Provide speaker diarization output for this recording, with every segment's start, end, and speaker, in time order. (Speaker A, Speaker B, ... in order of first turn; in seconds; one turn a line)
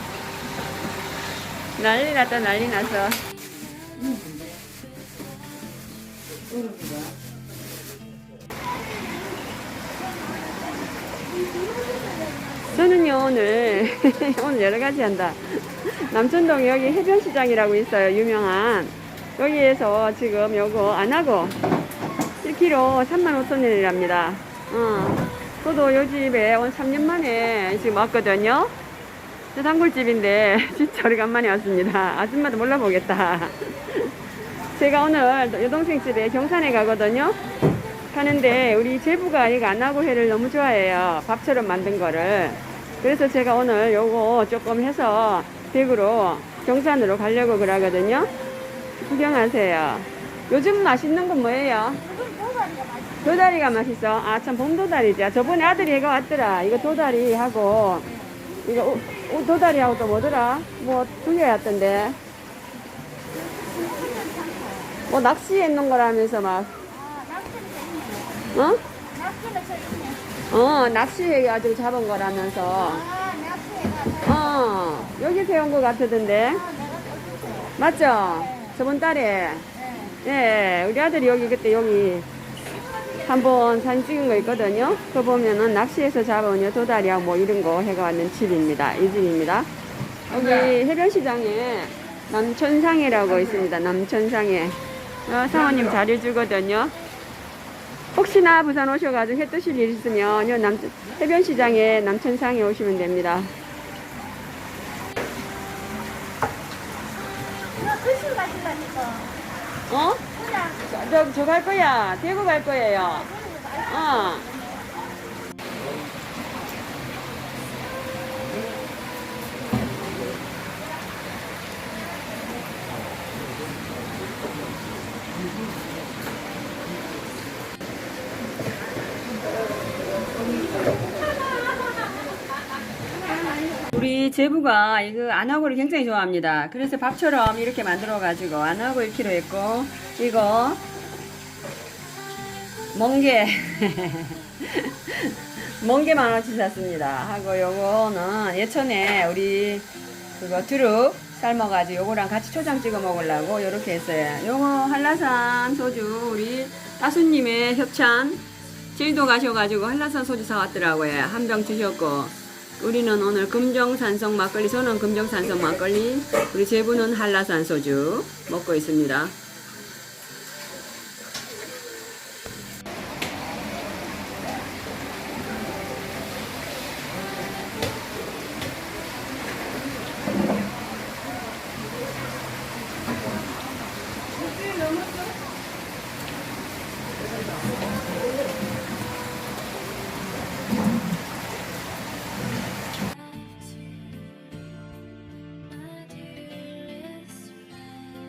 Speaker A: 1.8-3.2
Speaker A: 4.0-4.5
Speaker A: 6.5-7.1
Speaker B: 11.6-12.4
Speaker A: 12.7-21.6
Speaker A: 22.4-28.7
Speaker A: 29.5-34.1
Speaker A: 34.7-37.4
Speaker A: 38.1-48.3
Speaker A: 49.0-52.1
Speaker B: 52.1-53.2
Speaker A: 53.2-58.1
Speaker A: 58.6-62.2
Speaker B: 63.4-65.0
Speaker A: 65.1-66.7
Speaker B: 67.0-68.5
Speaker A: 68.5-68.8
Speaker B: 69.2-70.2
Speaker A: 70.5-73.1
Speaker B: 73.1-74.2
Speaker A: 74.2-76.7
Speaker B: 76.7-77.7
Speaker A: 77.8-82.3
Speaker A: 83.2-89.7
Speaker A: 90.3-97.0
Speaker A: 98.1-103.5
Speaker B: 107.8-109.3
Speaker A: 109.9-114.5
Speaker B: 113.3-113.7
Speaker A: 133.9-140.8
Speaker A: 142.9-169.3
Speaker B: 196.0-197.8